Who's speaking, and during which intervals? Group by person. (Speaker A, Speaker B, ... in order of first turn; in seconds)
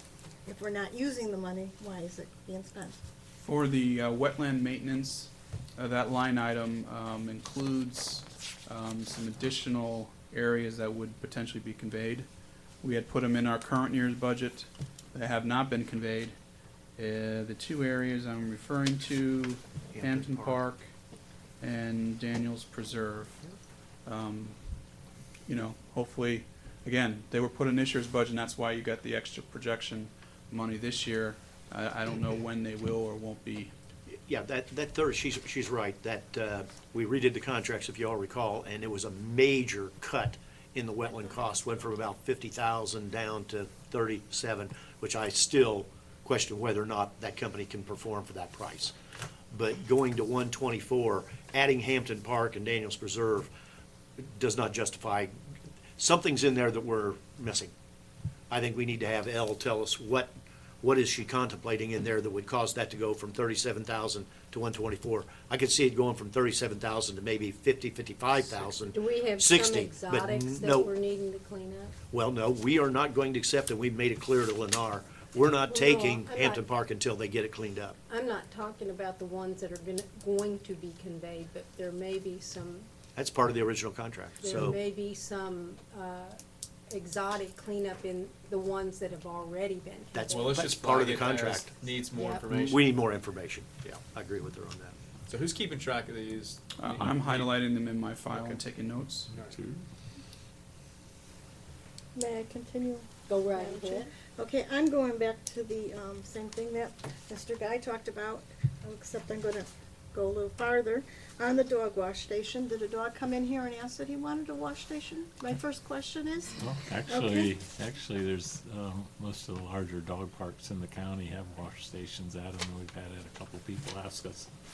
Speaker A: 0.5-3.0, 102.2-116.5, 117.1-117.5
Speaker B: 3.4-12.3, 12.8-16.4, 17.0-20.9, 21.6-23.4, 24.1-24.6, 25.5-33.7, 96.8-99.3
Speaker C: 19.9-20.6, 34.3-48.9, 49.5-53.5, 54.2-55.3, 56.0-57.7, 58.5-70.9, 72.1-78.0, 83.2-84.8, 90.1-91.8, 92.5-95.0
Speaker D: 68.9-72.0, 75.7-76.6, 78.1-82.9, 84.4-86.4, 86.9-90.8, 92.1-92.5, 103.3-104.1
Speaker E: 90.3-93.0, 95.2-97.6, 98.3-98.6, 99.3-99.6
Speaker F: 99.5-99.8, 116.6-124.5